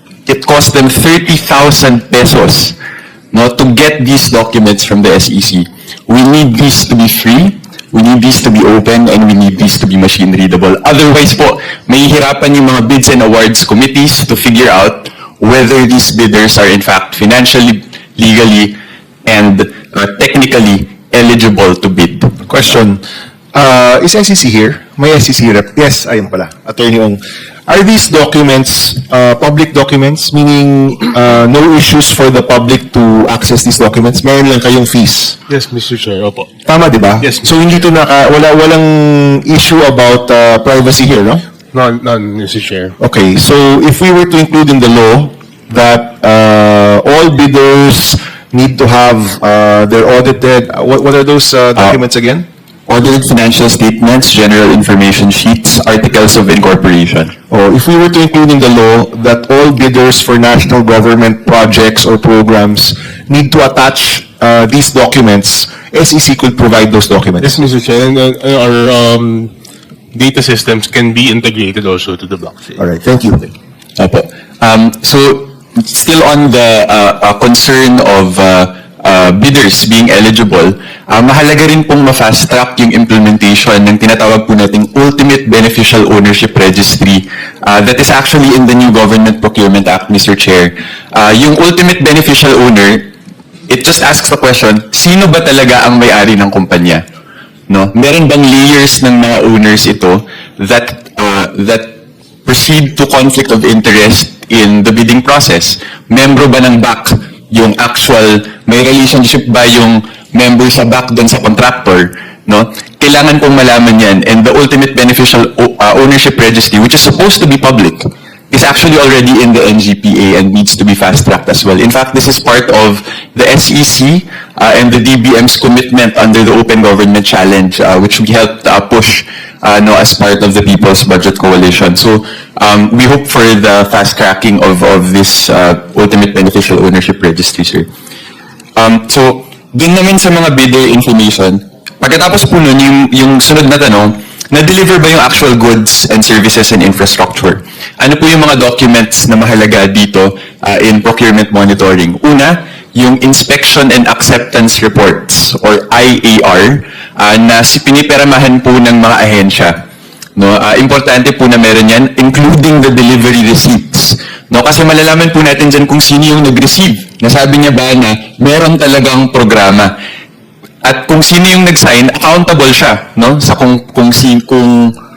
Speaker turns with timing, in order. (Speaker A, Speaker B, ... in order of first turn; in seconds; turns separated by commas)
Speaker A: 0.2-2.8, Speaker A: 3.3-22.3, Speaker B: 22.5-23.0, Speaker B: 23.5-35.4, Speaker C: 35.5-36.5, Speaker B: 36.6-41.4, Speaker C: 37.2-37.6, Speaker C: 41.7-43.0, Speaker B: 43.0-52.4, Speaker A: 52.9-57.3, Speaker B: 57.5-67.5, Speaker C: 67.4-69.5, Speaker C: 70.1-72.8, Speaker B: 72.8-73.5, Speaker A: 74.0-93.1, Speaker A: 93.7-97.0, Speaker A: 97.7-137.9, Speaker A: 138.8-159.7, Speaker A: 160.3-169.9, Speaker A: 170.8-174.9